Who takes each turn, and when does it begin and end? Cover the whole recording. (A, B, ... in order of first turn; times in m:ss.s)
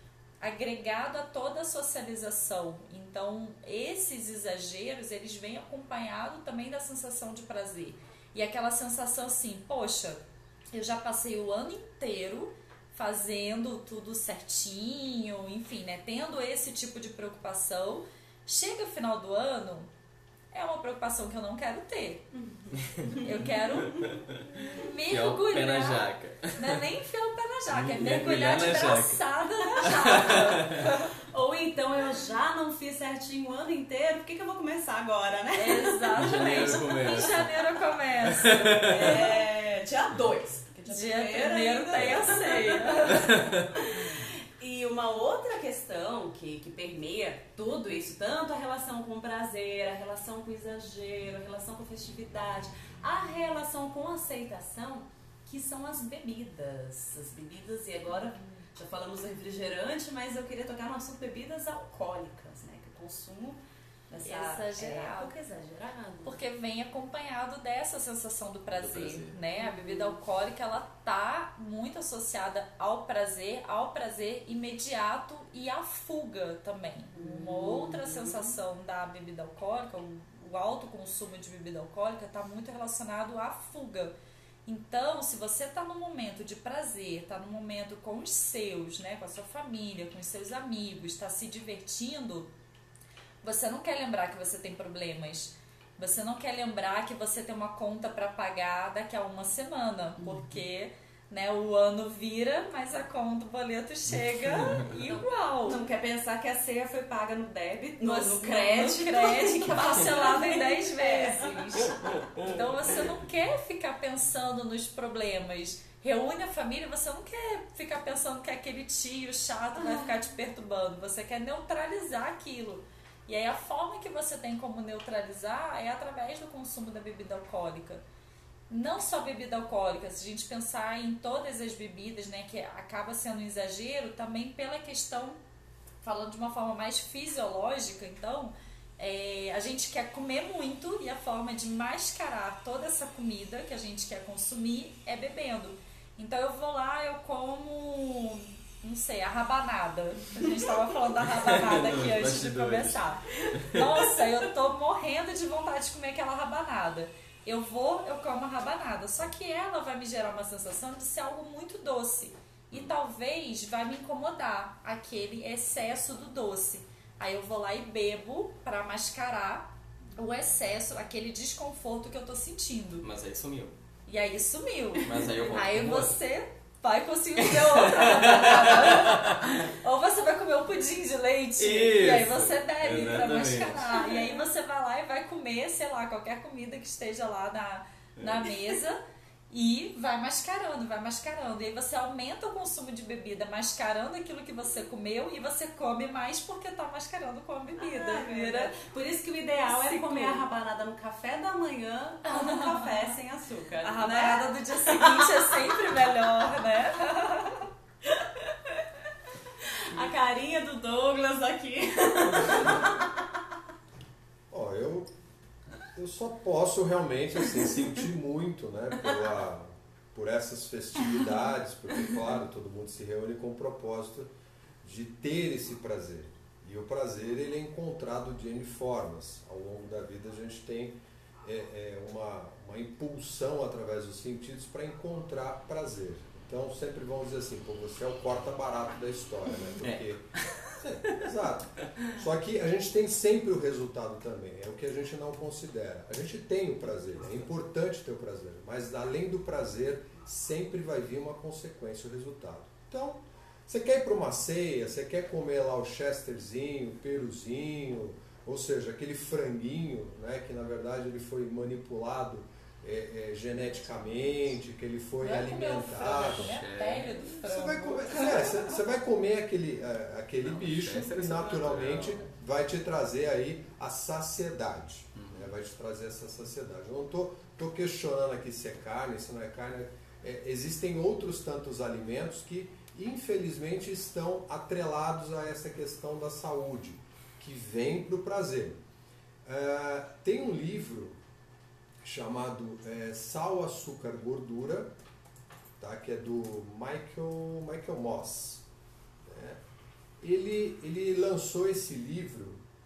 0:00.4-0:19.9 A
0:20.5-0:22.3 A
0:22.8-0:23.2 B
0:23.2-0:24.1 A
0:23.8-0:26.8 B
0:24.7-0:31.1 A
0:27.7-0:29.2 B
0:29.8-0:30.9 B
0:31.3-0:37.0 C
0:35.5-0:39.5 A
0:36.2-0:37.6 B
0:38.3-0:39.2 B
0:38.8-1:06.4 C
0:40.9-0:43.4 A
0:42.0-0:42.2 B
0:43.2-0:43.7 B
0:58.1-0:58.6 A
1:04.2-1:05.3 A
1:06.2-1:24.1 A
1:08.7-1:09.4 B
1:09.6-1:10.2 C
1:17.1-1:18.6 C
1:24.6-1:32.5 A
1:33.4-1:45.8 A
1:44.6-1:44.8 B
1:45.6-1:51.8 C
1:48.0-2:08.0 A
1:59.8-2:00.2 C
2:08.7-2:15.4 A
2:16.0-2:53.0 A
2:31.3-2:34.1 B
2:53.0-2:53.8 B
2:54.1-3:18.8 A
2:55.0-2:56.2 B
2:57.5-2:59.5 B
3:01.6-3:04.1 B
3:08.2-3:08.5 B
3:17.8-3:25.8 C
3:19.6-3:20.4 A
3:22.3-3:23.0 A
3:23.8-3:27.7 A
3:29.9-3:33.1 C
3:34.5-3:35.1 D
3:35.9-3:44.3 D
3:44.8-4:26.5 D
3:59.8-4:01.2 B
4:25.2-4:28.8 A
4:26.2-4:27.3 B
4:27.4-4:48.8 D
4:30.4-4:32.2 B
4:35.1-4:35.5 B
4:49.4-4:51.2 D
4:52.0-4:54.9 D
4:55.8-4:58.6 D
4:59.2-4:59.6 D
5:00.2-5:02.6 D